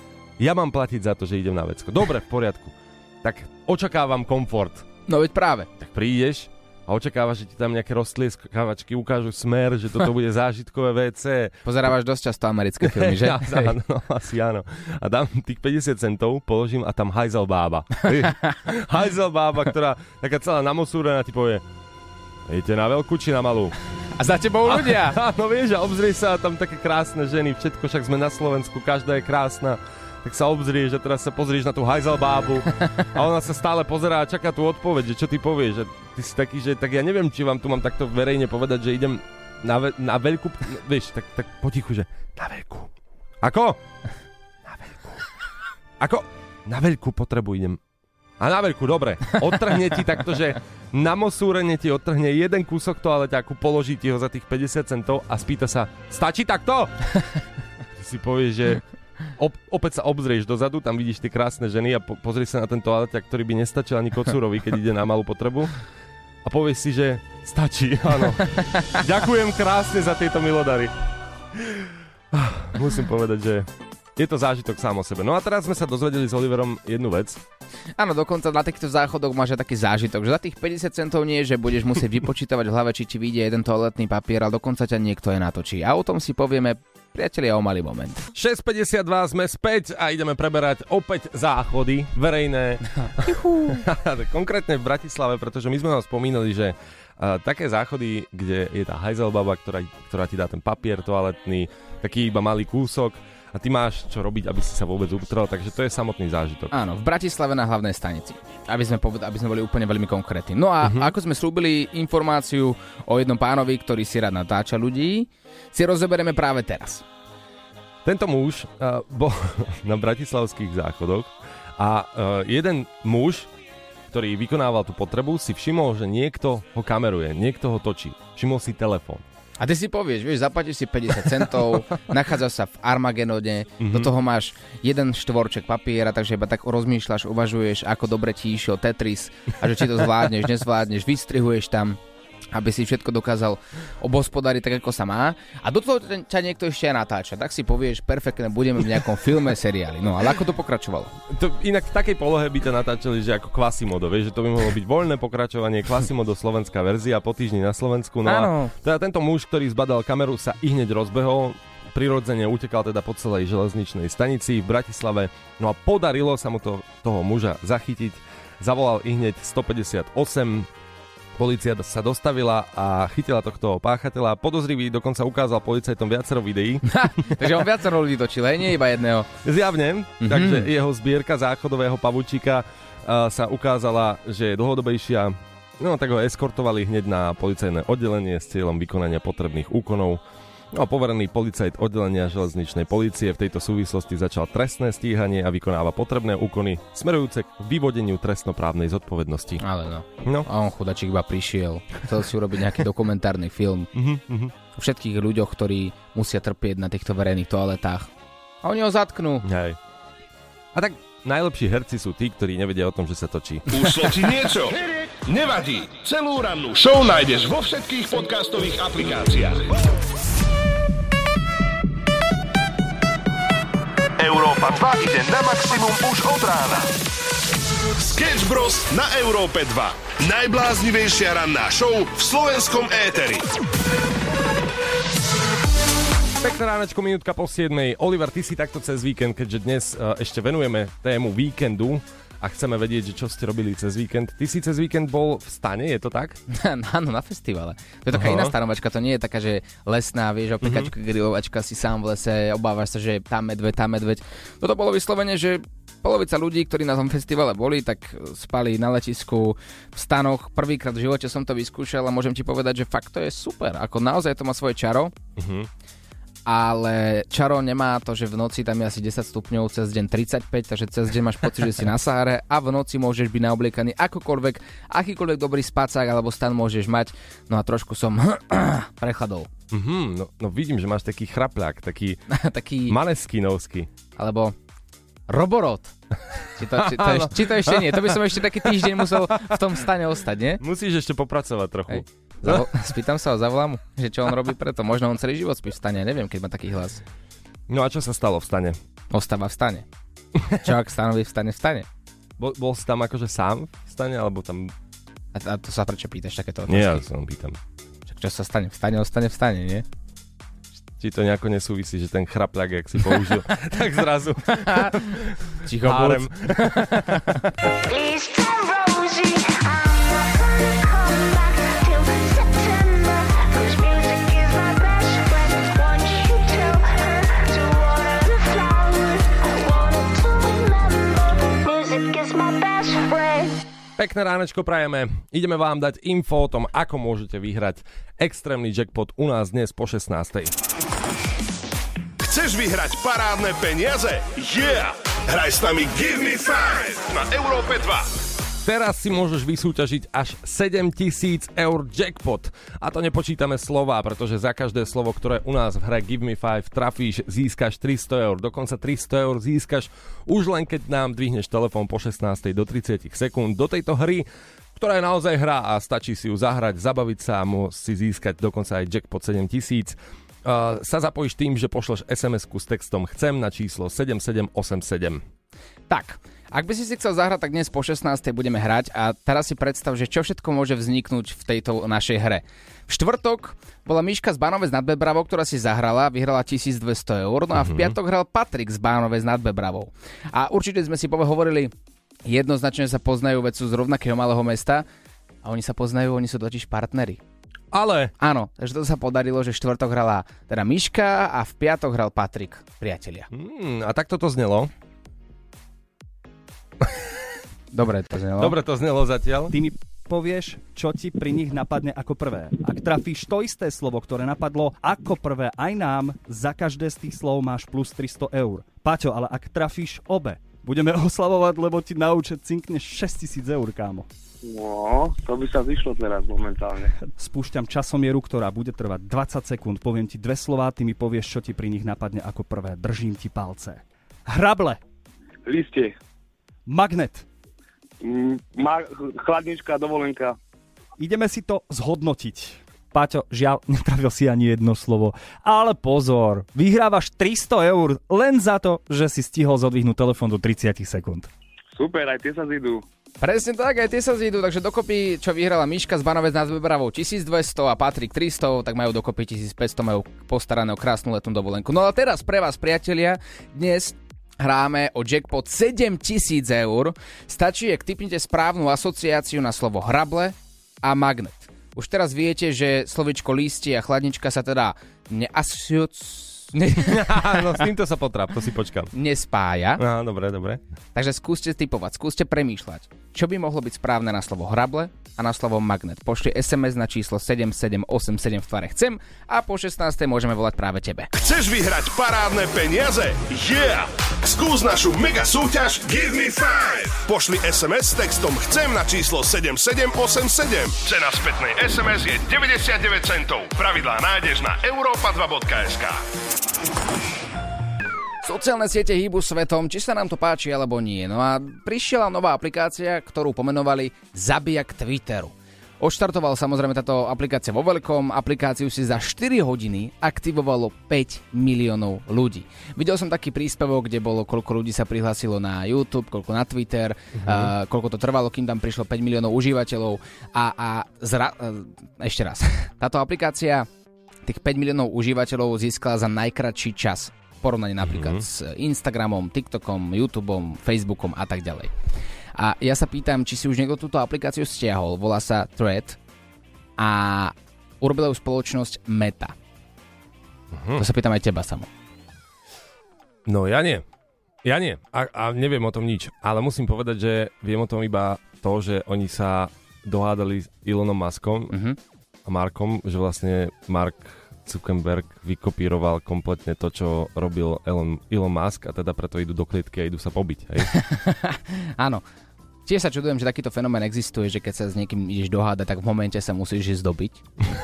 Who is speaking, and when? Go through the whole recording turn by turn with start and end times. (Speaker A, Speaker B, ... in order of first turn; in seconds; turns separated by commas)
Speaker A: 0.4-4.8, Speaker B: 5.1-5.7, Speaker A: 5.8-11.6, Speaker B: 11.6-13.7, Speaker A: 12.8-21.6, Speaker B: 18.2-18.6, Speaker A: 22.5-23.7, Speaker B: 24.2-25.2, Speaker A: 24.6-43.8, Speaker A: 44.6-45.2, Speaker A: 46.0-47.8, Speaker A: 48.4-57.0, Speaker A: 58.0-58.8, Speaker A: 59.4-65.7, Speaker A: 66.4-70.9, Speaker A: 71.5-77.4, Speaker B: 78.0-88.2, Speaker A: 88.3-106.7, Speaker B: 93.0-93.8, Speaker B: 106.7-117.0, Speaker A: 110.8-111.1, Speaker A: 118.0-123.5, Speaker A: 124.1-129.2, Speaker B: 129.6-142.0, Speaker A: 133.8-134.1, Speaker B: 142.5-151.1, Speaker A: 151.3-170.7, Speaker B: 158.2-158.7, Speaker A: 171.4-177.6, Speaker B: 176.9-179.3, Speaker A: 179.4-199.6, Speaker B: 180.2-180.7, Speaker B: 199.6-203.9, Speaker A: 203.9-204.5, Speaker B: 204.7-208.1, Speaker B: 208.6-209.4, Speaker A: 209.4-209.8, Speaker A: 210.7-213.7, Speaker C: 213.7-219.7, Speaker C: 224.2-226.9, Speaker C: 228.0-233.4, Speaker A: 236.4-246.4, Speaker B: 246.5-265.1, Speaker A: 248.1-248.5, Speaker A: 250.6-250.9, Speaker A: 265.4-265.7, Speaker B: 266.5-279.5, Speaker A: 279.7-282.2, Speaker B: 282.3-282.9, Speaker A: 282.9-283.9, Speaker B: 284.1-284.5, Speaker B: 285.3-285.9, Speaker B: 286.6-290.6, Speaker A: 286.7-289.5, Speaker A: 290.6-292.7, Speaker B: 291.9-297.0, Speaker A: 297.7-298.8, Speaker B: 299.1-299.9, Speaker B: 300.6-301.9, Speaker A: 302.4-304.7, Speaker B: 305.3-307.0, Speaker A: 306.7-307.6, Speaker B: 308.1-309.8, Speaker A: 311.0-317.4, Speaker B: 314.5-315.0, Speaker B: 315.6-317.4, Speaker D: 317.9-333.6, Speaker A: 334.0-340.5, Speaker C: 342.2-348.1, Speaker A: 348.6-375.2, Speaker B: 375.9-391.7, Speaker A: 387.5-387.9, Speaker B: 392.2-394.8, Speaker B: 395.4-397.2, Speaker A: 397.7-398.1, Speaker B: 398.2-403.3, Speaker A: 403.3-404.7, Speaker B: 407.7-408.5, Speaker A: 408.4-409.5, Speaker E: 409.5-424.1, Speaker F: 424.4-426.9, Speaker E: 427.0-434.8, Speaker F: 435.4-435.9, Speaker E: 436.6-437.2, Speaker F: 438.0-440.4, Speaker E: 441.0-451.3, Speaker F: 451.7-452.8, Speaker B: 453.2-477.6, Speaker A: 476.8-478.9, Speaker B: 478.9-479.8, Speaker A: 479.8-480.6, Speaker B: 480.9-491.1, Speaker C: 491.2-506.0, Speaker B: 508.2-533.7, Speaker A: 527.1-527.5, Speaker B: 534.2-541.7, Speaker A: 537.8-538.2, Speaker B: 542.4-546.0, Speaker B: 546.8-549.3, Speaker A: 550.5-550.8, Speaker B: 550.8-551.7, Speaker A: 553.2-553.8, Speaker A: 554.4-561.5, Speaker B: 561.5-561.8, Speaker A: 562.2-570.7, Speaker B: 570.7-572.0, Speaker B: 572.6-577.2